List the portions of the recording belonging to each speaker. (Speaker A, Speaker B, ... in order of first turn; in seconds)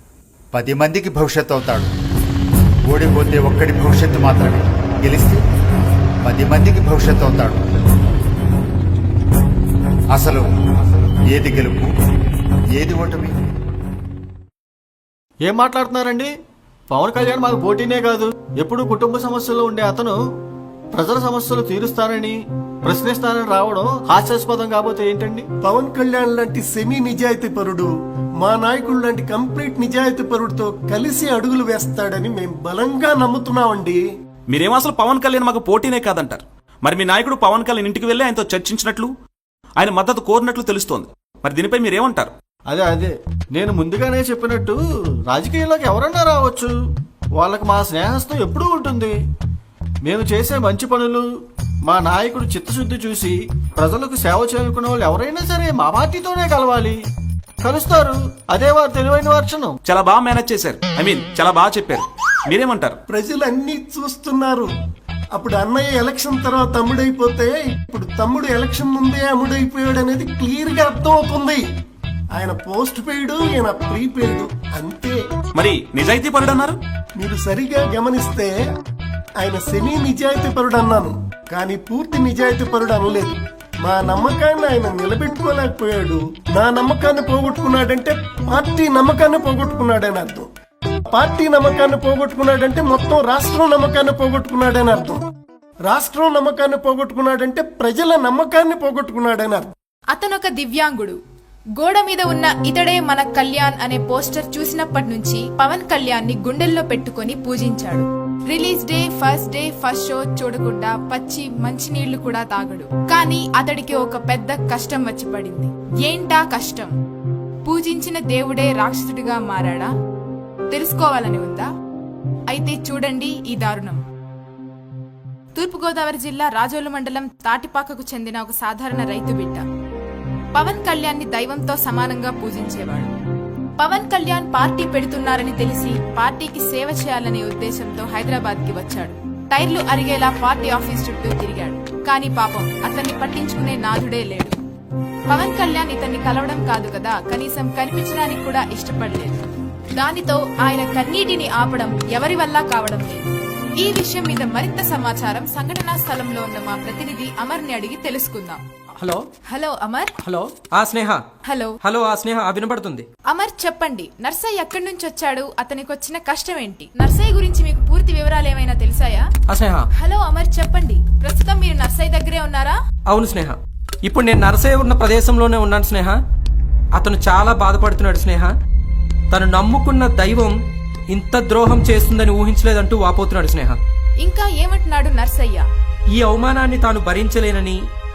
Speaker A: 0.5-1.9, 2.9-5.4, 6.2-7.7, 10.1-10.5, 11.3-11.9, 12.7-13.3
Speaker B: 15.4-16.3, 16.9-20.2, 20.9-25.5, 42.7-44.8, 45.3-46.7, 47.4-49.1, 50.0-51.2, 51.9-57.0, 57.6-59.8
Speaker C: 25.6-27.9, 28.4-34.0, 63.1-64.7, 65.4-71.6, 72.3-75.2, 77.2-78.5, 79.4-90.5, 91.1-95.2, 95.9-99.7
Speaker D: 34.5-39.1, 39.8-42.3, 59.9-63.0, 75.6-76.8
Speaker E: 100.1-101.2, 101.8-116.9, 117.7-119.9, 120.7-121.7, 122.5-124.0, 125.5-129.7, 130.5-133.1, 133.8-144.6, 145.3-149.4, 150.0-153.2, 153.8-158.6, 159.5-160.1, 161.5-161.8, 163.3-169.2, 170.0-172.8, 184.2-185.7
Speaker F: 160.2-161.2, 161.8-163.1, 169.5-169.9, 173.1-176.2, 176.9-178.5, 179.3-180.6, 181.1-183.8, 186.1-187.8